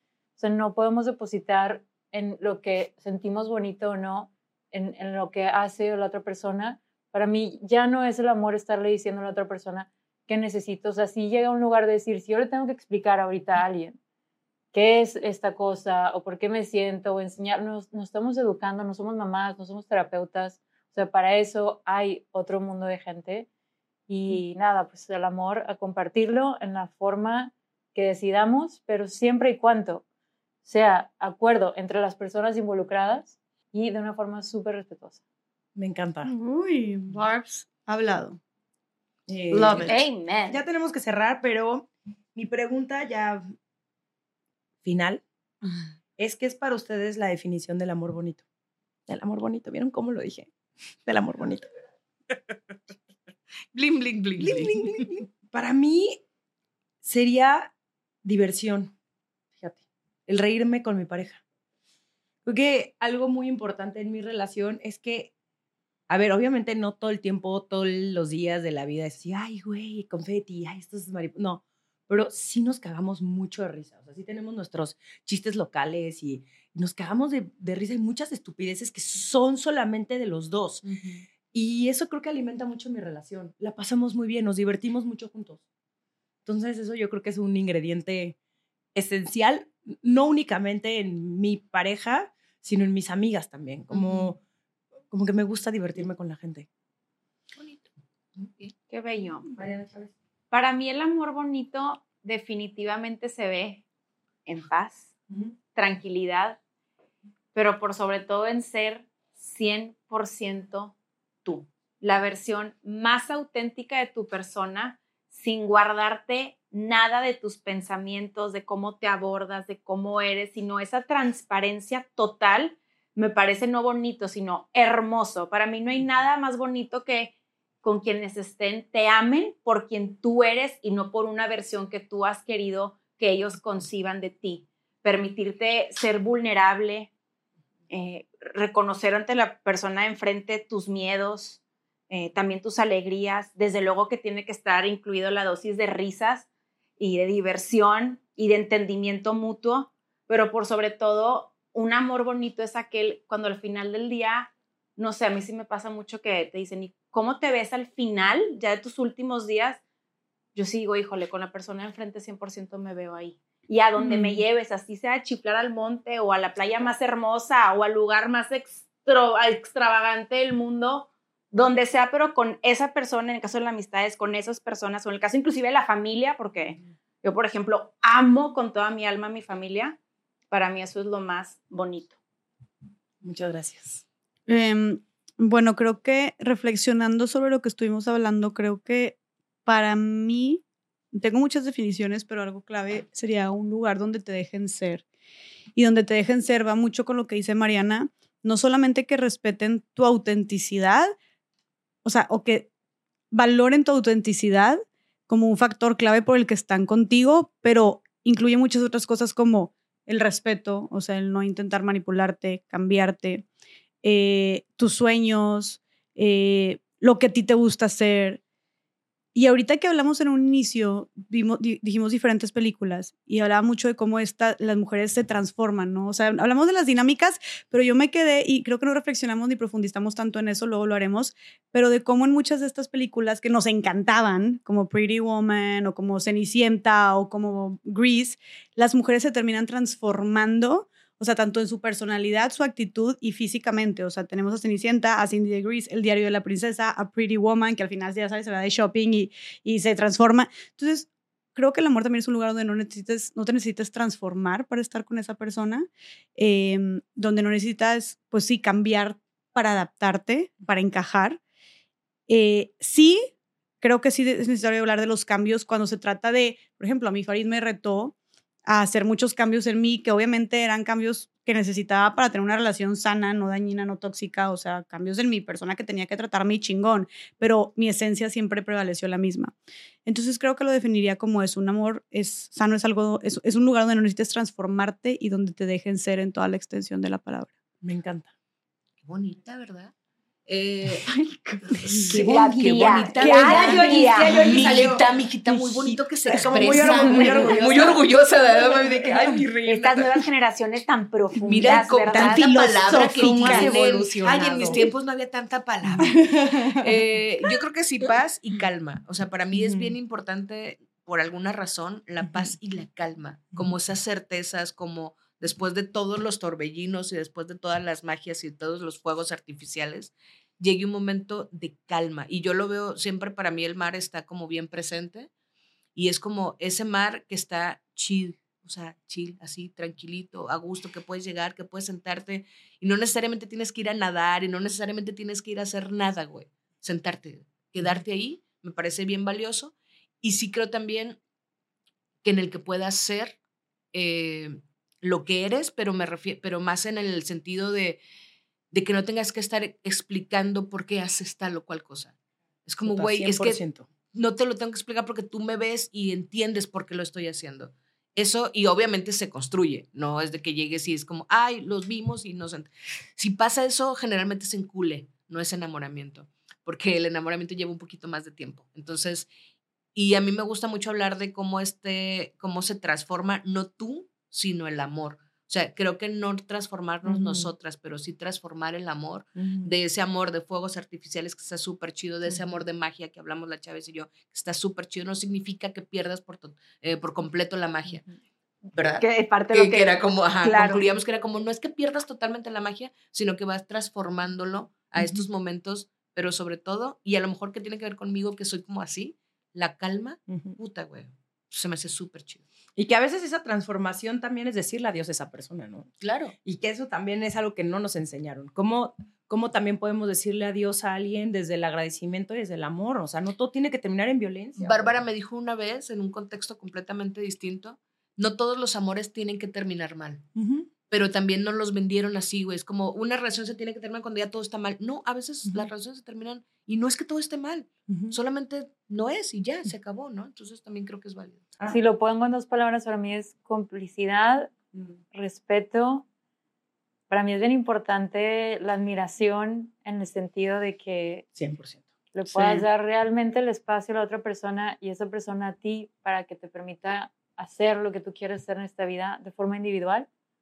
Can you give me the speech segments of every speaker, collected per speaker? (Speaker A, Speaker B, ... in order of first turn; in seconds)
Speaker A: 0.4-14.0, 14.7-23.5, 24.1-30.0, 30.6-35.2, 431.7-434.5, 435.1-436.0, 437.1-441.3, 442.1-450.1
Speaker B: 35.8-36.3, 39.3-43.4, 44.8-45.2, 46.2-48.4, 49.1-50.5, 51.0-51.7, 54.4-56.2, 57.0-57.7, 58.2-58.9, 59.6-61.4, 62.4-65.3, 66.1-80.8, 81.5-85.6, 86.4-88.3, 88.9-94.4, 95.1-96.7, 99.5-100.1, 183.2-184.0, 287.8-288.3, 291.7-299.4, 302.8-304.9, 305.8-306.8, 309.5-309.9, 352.8-353.9, 377.1-377.5, 379.4-379.7, 395.0-395.2, 400.3-400.6, 402.8-405.9, 406.4-415.0, 420.4-420.7, 427.9-428.1, 441.4-442.6
Speaker C: 36.2-38.4, 39.5-40.0, 164.0-164.3, 184.5-190.6, 191.1-195.0, 195.7-201.1, 202.0-202.7, 203.3-213.4, 214.0-218.4, 219.3-261.4, 262.3-268.1, 268.6-279.5, 280.1-287.5, 302.1-303.8
Speaker D: 39.8-40.6, 98.9-99.6, 100.5-103.8, 104.5-105.1, 105.7-106.6, 107.5-137.1, 137.9-146.5, 147.0-159.8, 160.5-180.0, 180.5-182.2, 292.1-294.5, 296.8-298.0, 299.6-304.8, 389.0-390.9
Speaker E: 53.7-55.1, 80.8-81.2, 93.9-94.3, 97.5-98.7, 289.0-289.9, 290.5-291.1, 291.7-300.2, 301.5-325.3, 325.9-341.2, 342.2-343.4, 343.9-348.0, 348.7-352.1, 352.6-353.6, 354.1-369.3, 369.9-388.0, 388.7-402.4, 406.0-406.3, 414.6-420.2, 420.9-431.4